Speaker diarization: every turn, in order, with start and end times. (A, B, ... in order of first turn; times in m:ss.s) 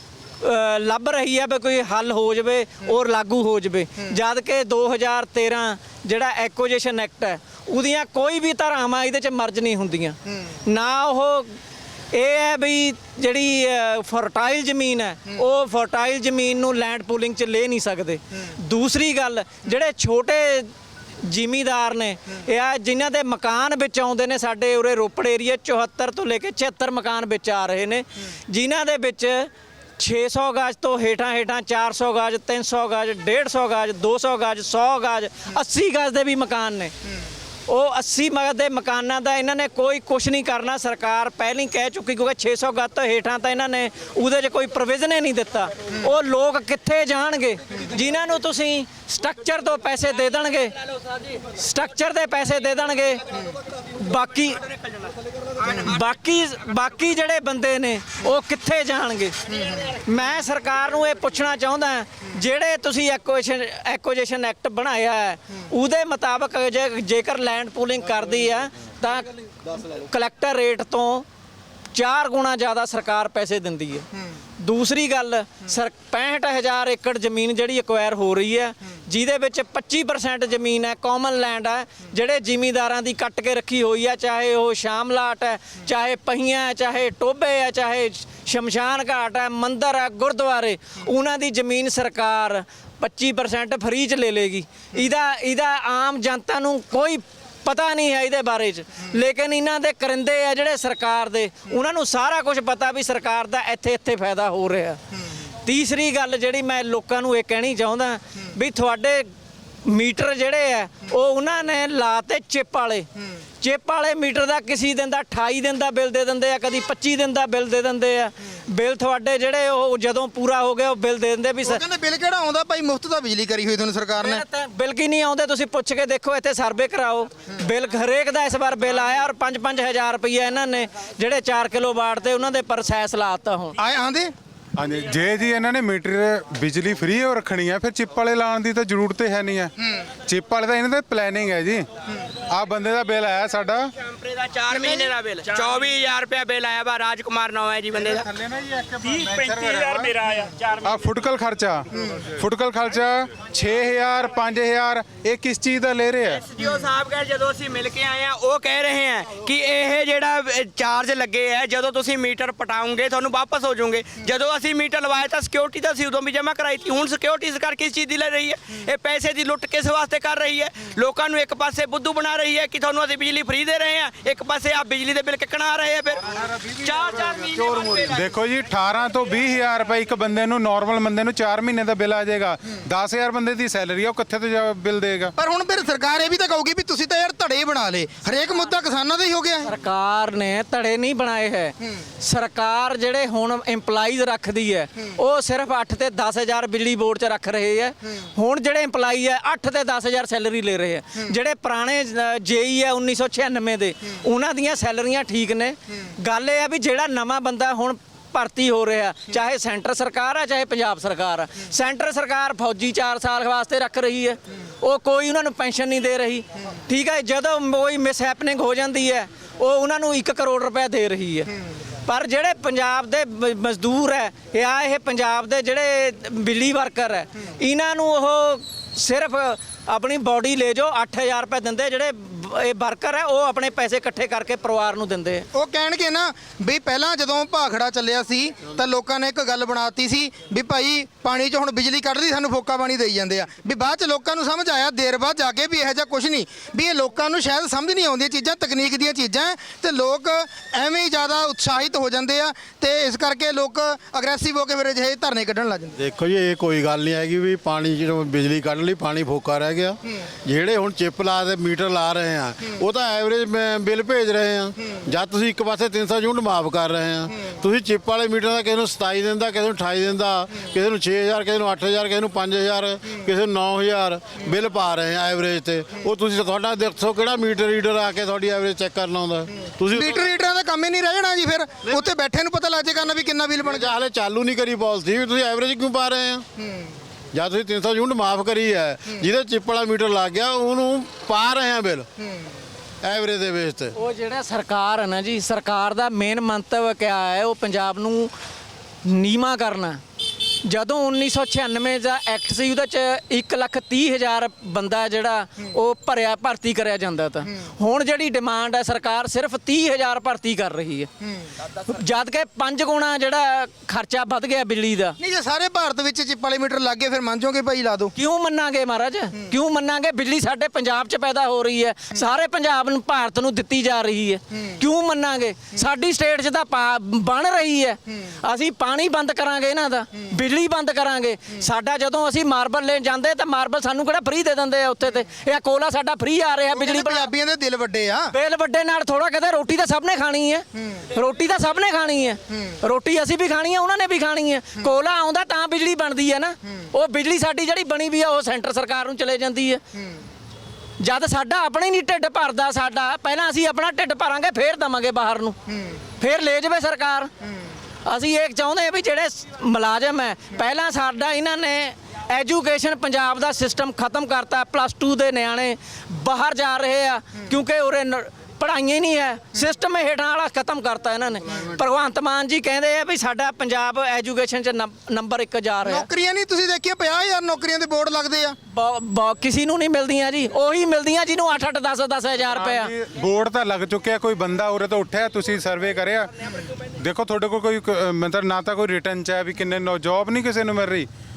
0:00.4-0:11.6 A
0:12.1-0:20.7 A
0:21.2-0:36.9 A
0:37.7-0:50.7 A
0:51.1-0:51.4 B
0:51.5-0:53.2 A
0:54.0-0:54.6 A
0:55.0-0:55.8 B
0:55.6-0:59.3 A
1:00.0-1:11.2 A
1:11.9-1:14.0 A
1:14.6-1:45.0 A
1:45.6-1:49.3 A
1:49.8-1:53.1 A
1:53.6-2:01.8 A
2:01.6-2:04.4 C
2:04.2-2:13.8 A
2:13.8-2:14.3 C
2:14.8-2:19.7 D
2:20.2-2:21.9 D
2:22.5-2:23.9 D
2:24.0-2:28.3 B
2:28.2-2:36.4 D
2:36.4-2:58.3 B
2:58.1-3:05.3 D
3:05.4-3:09.7 C
3:09.6-3:41.5 A
3:42.0-3:55.4 A
3:55.5-4:15.9 C
4:16.0-4:40.3 E
4:39.9-4:43.8 C
4:43.6-4:46.4 E
4:47.3-4:52.1 E
4:53.0-4:53.9 E
4:54.0-4:58.3 A
4:59.0-5:00.0 A
5:00.6-5:11.1 A
5:11.8-5:15.2 A
5:15.2-5:18.1 C
5:18.1-5:37.3 A
5:36.7-5:38.3 C
5:38.3-5:49.8 A
5:51.0-5:55.6 A
5:56.2-5:57.3 A
5:58.0-6:16.1 A
6:15.8-6:18.6 C
6:18.7-6:22.9 A
6:22.5-6:26.3 D
6:26.9-6:31.1 D